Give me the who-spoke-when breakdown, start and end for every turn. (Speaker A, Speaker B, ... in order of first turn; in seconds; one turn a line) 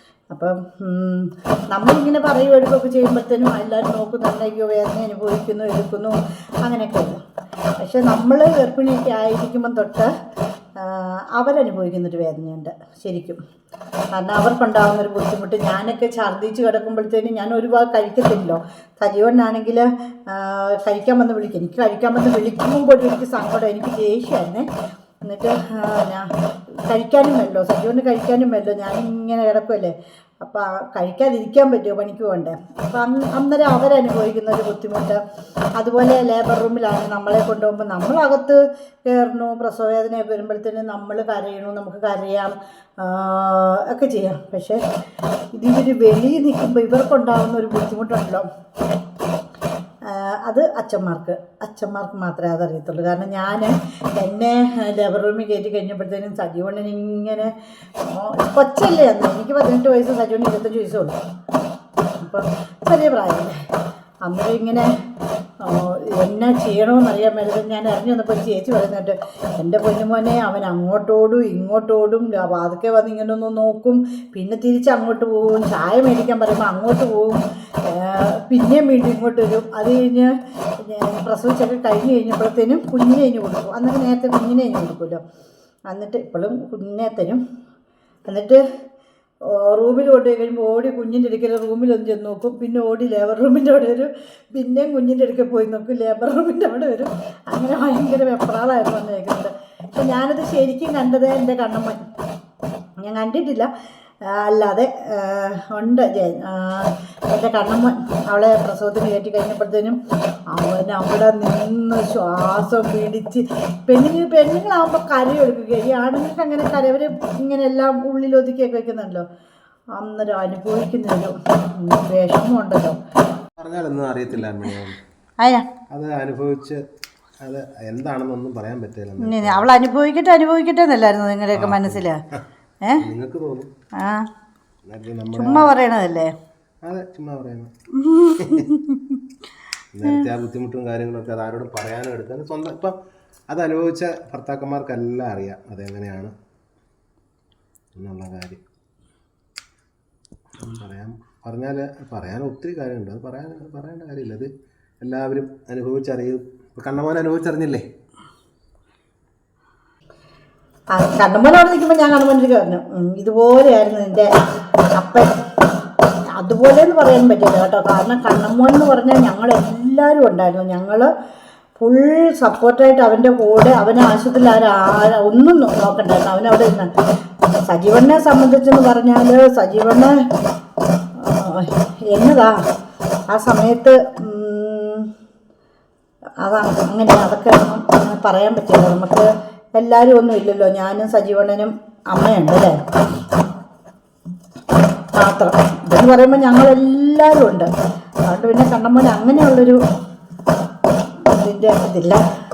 Speaker A: 0.3-7.2
Speaker A: 7.8-10.1
Speaker A: 10.8-13.4
Speaker A: 14.1-24.7
Speaker A: 25.2-26.3
Speaker A: 26.9-35.2
Speaker A: 35.8-44.8
Speaker A: 45.5-48.5
Speaker A: 50.0-61.2
Speaker A: 62.2-63.5
Speaker A: 64.2-64.9
Speaker A: 65.6-85.2
Speaker A: 85.9-87.4
Speaker A: 88.2-88.6
Speaker A: 89.5-102.0
Speaker A: 103.0-103.7
Speaker A: 104.2-110.0
Speaker A: 110.5-119.2
Speaker A: 119.9-123.0
Speaker B: 123.6-125.0
Speaker A: 125.4-125.7
Speaker B: 125.9-126.8
Speaker B: 127.4-129.7
Speaker A: 129.2-132.2
Speaker B: 131.5-132.1
Speaker B: 133.0-133.7
Speaker A: 134.0-134.3
Speaker B: 134.8-135.7
Speaker A: 135.3-136.3
Speaker B: 136.8-137.7
Speaker A: 138.0-139.2
Speaker B: 138.4-138.7
Speaker B: 139.9-142.9
Speaker B: 143.5-146.3
Speaker B: 147.9-148.6
Speaker B: 150.6-154.5
Speaker B: 155.0-157.8
Speaker A: 160.9-164.3
Speaker A: 164.9-165.4
Speaker A: 166.3-171.1
Speaker A: 171.8-176.9
Speaker A: 177.6-180.2
Speaker A: 181.2-182.6
Speaker A: 183.3-185.1
Speaker A: 186.4-192.8
Speaker A: 195.2-197.7
Speaker A: 198.3-199.8
Speaker A: 201.2-202.2